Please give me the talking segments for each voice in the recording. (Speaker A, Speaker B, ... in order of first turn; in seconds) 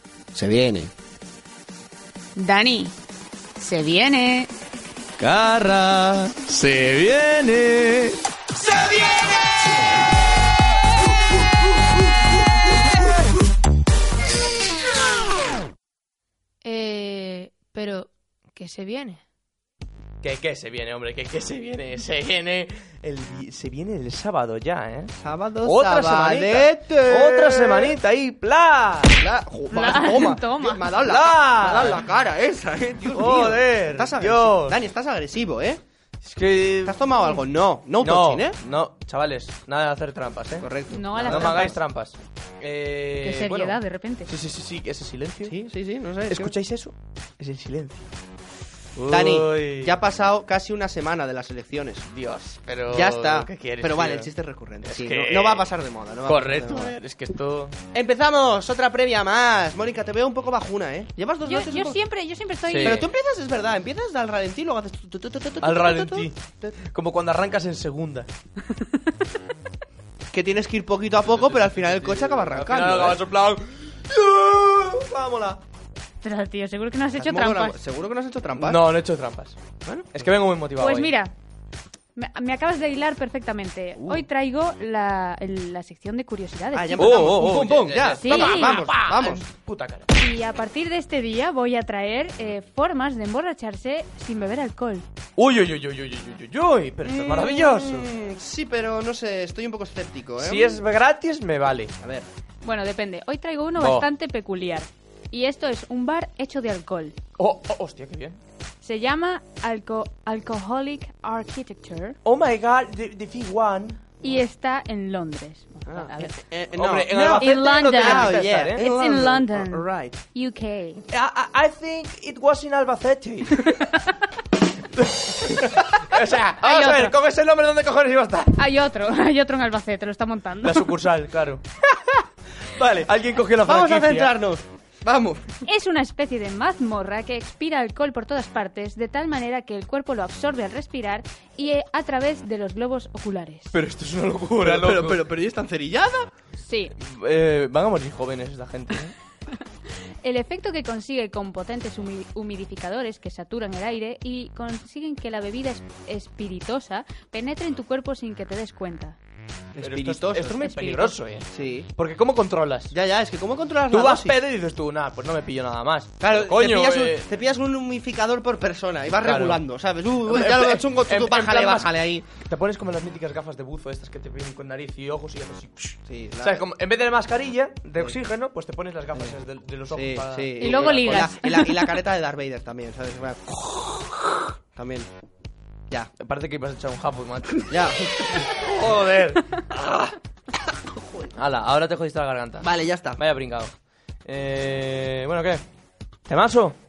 Speaker A: 0.3-0.9, 25.2-27.9, 29.2-35.8, 36.8-38.6, 40.6-41.8, 45.4-46.5, 49.1-52.1, 52.9-56.9, 57.9-62.0, 62.8-66.7, 70.3-73.2, 77.2-78.9, 79.8-80.1, 84.0-84.2, 86.7-89.4, 97.0-100.8, 102.0-102.3, 115.9-120.2, 133.6-135.4, 144.6-146.3, 159.7-160.8, 161.5-161.9, 162.9-164.3, 166.2-172.3, 176.1-176.6, 179.9-184.2, 184.7-185.1, 187.7-188.0, 192.6-193.2
Speaker B: 2.4-2.9, 3.6-4.5, 16.6-19.2, 29.7-30.9, 40.9-41.8, 43.2-44.3, 61.5-63.0, 76.2-77.8, 80.8-81.3, 82.2-87.4, 88.2-88.7, 90.2-95.0, 102.6-107.2, 108.8-112.2, 114.2-116.3, 117.3-121.0, 126.6-127.1, 128.6-130.9, 135.6-143.7, 146.6-146.9, 150.2-159.2, 160.6-161.1, 180.6-181.8
Speaker C: 5.2-8.2, 20.2-29.2, 31.0-32.0, 33.1-34.8, 36.2-37.0, 38.0-40.7, 41.2-45.6, 46.3-48.0, 49.0-50.0, 52.1-54.3, 54.8-55.7, 56.2-57.7, 62.7-63.1, 65.6-68.3, 71.4-75.6, 78.6-79.5, 80.1-81.1, 87.0-90.1, 95.4-98.1, 100.4-101.9, 103.8-104.0, 107.4-108.4, 112.2-114.0, 116.7-118.8, 121.1-123.6, 125.0-128.5, 130.6-132.2, 132.8-134.3, 143.7-145.2, 147.0-149.1, 159.8-162.9, 163.9-167.2, 169.2-169.6, 170.2-181.2, 186.2-190.1, 191.3-193.7, 194.2-195.6, 196.3-196.8